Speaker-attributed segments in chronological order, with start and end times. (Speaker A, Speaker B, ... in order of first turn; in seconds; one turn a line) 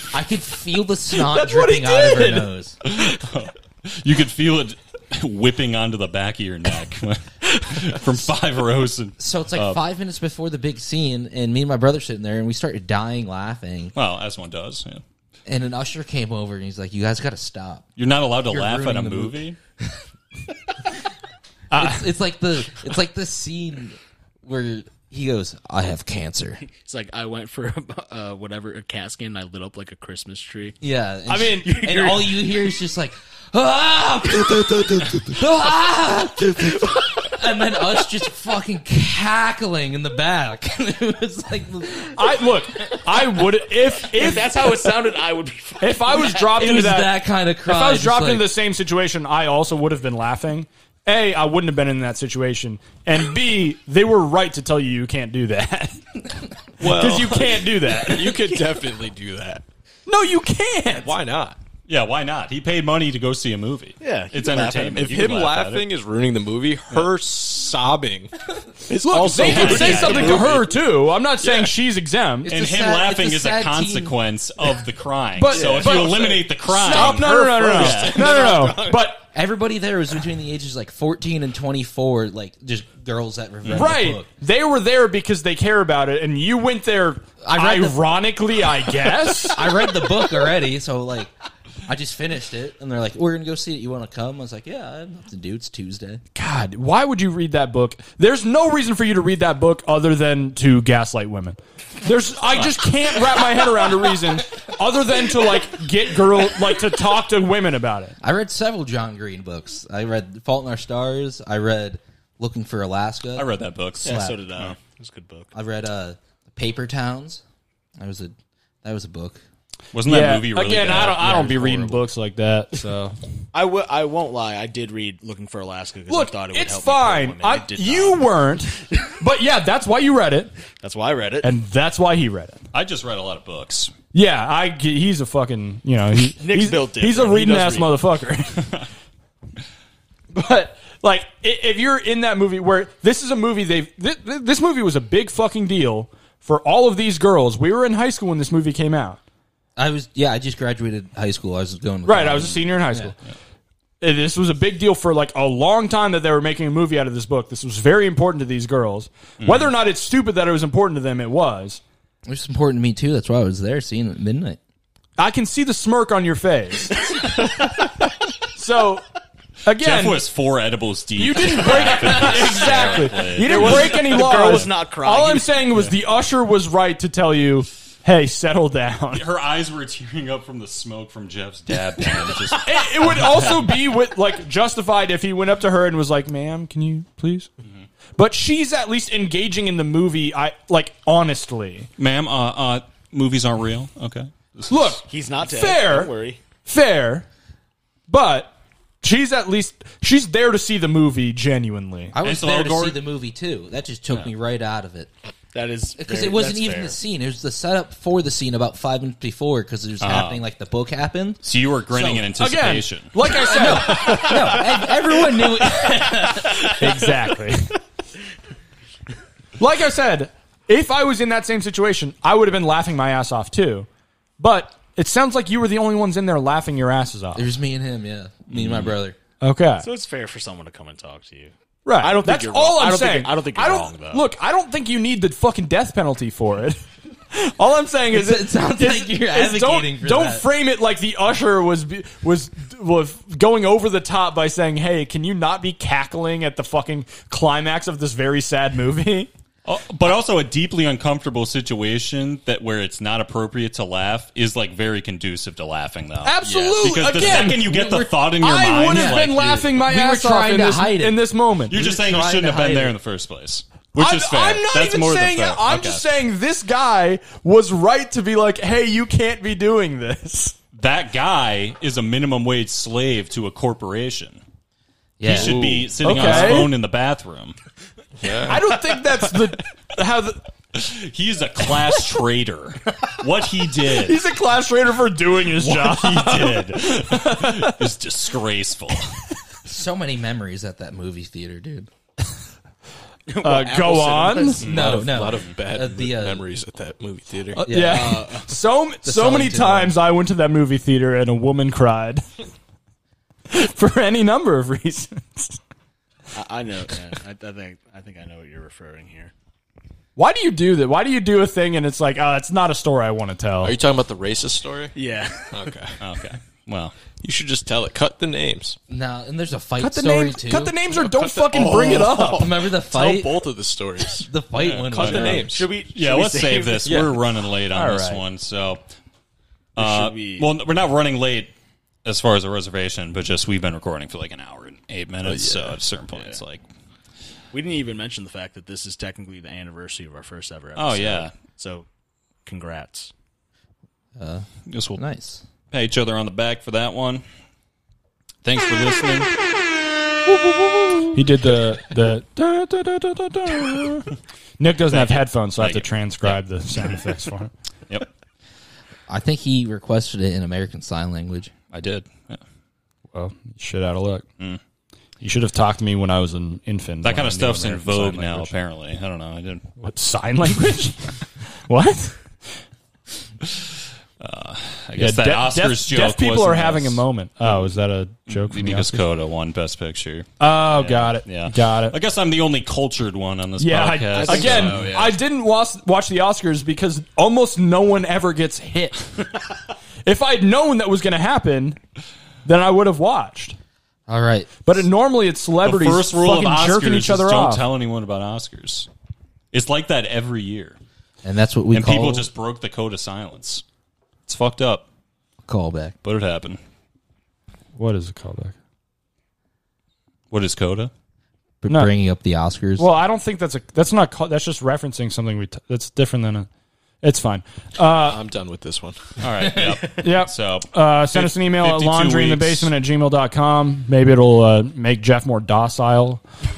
Speaker A: 0.1-2.8
Speaker B: 1.2-2.5
Speaker C: 2.9-9.8
Speaker A: 9.2-13.9
Speaker C: 13.9-15.0
Speaker A: 15.4-17.9
Speaker C: 18.0-19.6
Speaker A: 18.5-19.4
Speaker B: 21.7-22.0
Speaker A: 21.7-26.6
Speaker D: 26.7-30.8
Speaker A: 30.8-42.4
Speaker B: 31.3-32.2
Speaker D: 31.6-32.5
Speaker B: 42.1-44.6
Speaker D: 44.1-46.6
Speaker B: 45.8-47.1
Speaker A: 46.5-48.5
Speaker B: 47.6-56.0
Speaker E: 56.8-59.6
Speaker B: 56.8-58.4
Speaker B: 60.1-61.1
Speaker E: 60.9-61.6
Speaker C: 61.9-65.9
Speaker D: 64.0-65.0
Speaker E: 64.9-70.7
Speaker B: 69.0-72.5
Speaker D: 69.4-70.4
Speaker C: 69.4-70.5
Speaker E: 71.4-71.7
Speaker A: 72.4-74.2
Speaker C: 72.5-78.2
Speaker B: 75.3-79.2
Speaker D: 75.5-76.1
Speaker E: 75.7-79.1
Speaker A: 79.3-84.3
Speaker B: 83.7-89.7
Speaker A: 87.4-88.0
Speaker A: 89.5-91.3
Speaker A: 91.8-96.2
Speaker B: 96.3-108.2
Speaker A: 108.2-113.5
Speaker C: 113.3-114.8
Speaker A: 114.0-114.4
Speaker D: 114.0-115.5
Speaker A: 115.5-117.4
Speaker A: 118.0-119.4
Speaker C: 119.9-121.4
Speaker B: 120.0-123.2
Speaker A: 120.9-122.0
Speaker D: 123.5-128.2
Speaker B: 126.1-130.5
Speaker D: 130.8-131.5
Speaker B: 131.4-132.6
Speaker C: 132.7-133.9
Speaker B: 134.1-138.8
Speaker D: 136.4-137.9
Speaker B: 140.3-149.2
Speaker A: 149.8-153.1
Speaker B: 152.0-153.2
Speaker B: 154.0-161.8
Speaker C: 159.4-159.7
Speaker A: 162.2-164.6
Speaker B: 165.2-167.1
Speaker D: 167.2-167.6
Speaker B: 168.5-169.0
Speaker B: 169.6-170.2
Speaker C: 169.8-174.7
Speaker B: 171.2-179.2
Speaker D: 172.5-175.6
Speaker C: 179.1-183.9
Speaker B: 182.3-187.5
Speaker B: 188.2-191.9
Speaker C: 192.0-195.0
Speaker B: 194.7-196.1
Speaker D: 195.1-196.4
Speaker B: 196.7-197.3
Speaker B: 198.1-202.2
Speaker A: 202.1-205.1
Speaker C: 202.2-203.0
Speaker D: 205.5-207.0
Speaker A: 205.9-212.3
Speaker C: 210.0-210.4
Speaker C: 211.4-214.3
Speaker B: 212.3-214.6
Speaker A: 213.2-216.9
Speaker B: 216.7-217.8
Speaker B: 219.6-223.9
Speaker B: 224.4-227.5
Speaker A: 227.3-229.2
Speaker C: 228.5-228.9
Speaker B: 229.4-229.8
Speaker D: 229.8-234.2
Speaker B: 231.8-249.3
Speaker A: 238.1-240.4
Speaker C: 249.6-259.6
Speaker B: 256.2-257.6
Speaker E: 256.4-257.2
Speaker A: 257.2-258.3
Speaker B: 258.4-261.8
Speaker A: 258.9-262.9
Speaker C: 261.7-266.1
Speaker B: 263.9-270.5
Speaker C: 270.7-274.4
Speaker A: 275.2-275.8
Speaker C: 275.2-277.6
Speaker E: 275.4-276.6
Speaker B: 276.0-276.7
Speaker E: 278.2-278.6
Speaker B: 278.4-280.4
Speaker C: 280.7-284.2
Speaker B: 284.0-287.9
Speaker C: 285.5-289.1
Speaker A: 289.6-291.9
Speaker D: 293.3-294.8
Speaker B: 293.4-295.1
Speaker C: 294.6-295.5
Speaker A: 294.6-296.4
Speaker E: 294.7-297.7
Speaker B: 297.5-302.2
Speaker A: 297.6-298.3
Speaker D: 297.8-298.5
Speaker A: 299.0-300.0
Speaker B: 303.5-305.6
Speaker D: 306.3-309.3
Speaker B: 310.1-313.8
Speaker E: 313.6-314.9
Speaker D: 314.9-315.5
Speaker E: 315.5-316.0
Speaker C: 316.0-316.9
Speaker E: 317.2-318.8
Speaker A: 318.9-320.7
Speaker B: 319.8-322.5
Speaker E: 320.9-324.3
Speaker A: 322.1-323.4
Speaker A: 324.2-325.6
Speaker C: 324.6-328.8
Speaker E: 324.8-325.7
Speaker D: 325.1-327.0
Speaker E: 326.8-327.2
Speaker B: 327.7-328.2
Speaker C: 329.7-331.5
Speaker D: 329.8-330.5
Speaker C: 332.0-336.6
Speaker E: 335.2-335.8
Speaker D: 336.1-336.4
Speaker D: 337.5-341.9
Speaker C: 340.8-341.3
Speaker D: 342.4-343.1
Speaker A: 344.2-345.4
Speaker C: 344.7-345.0
Speaker C: 345.7-347.2
Speaker C: 348.4-349.3
Speaker C: 350.3-351.0
Speaker B: 351.1-354.1
Speaker B: 354.6-357.5
Speaker C: 354.9-357.0
Speaker A: 359.1-361.5
Speaker C: 361.7-362.4
Speaker B: 363.1-364.2
Speaker B: 365.2-368.5
Speaker C: 367.0-369.7
Speaker B: 369.8-372.2
Speaker C: 374.2-377.0
Speaker B: 375.0-379.0
Speaker C: 378.3-384.9
Speaker B: 380.4-381.9
Speaker B: 383.6-389.1
Speaker D: 384.1-385.2
Speaker B: 390.0-391.8
Speaker B: 392.4-393.6
Speaker A: 394.1-394.6
Speaker B: 394.6-397.6
Speaker C: 395.6-398.9
Speaker C: 399.5-400.8
Speaker A: 401.2-402.3
Speaker C: 401.7-403.6
Speaker C: 404.3-404.9
Speaker A: 405.4-405.9
Speaker C: 406.0-406.6
Speaker B: 407.8-408.5
Speaker C: 410.3-410.9
Speaker A: 411.6-412.9
Speaker B: 412.8-416.5
Speaker B: 417.0-418.2
Speaker E: 417.9-419.6
Speaker C: 419.2-422.7
Speaker B: 420.0-426.2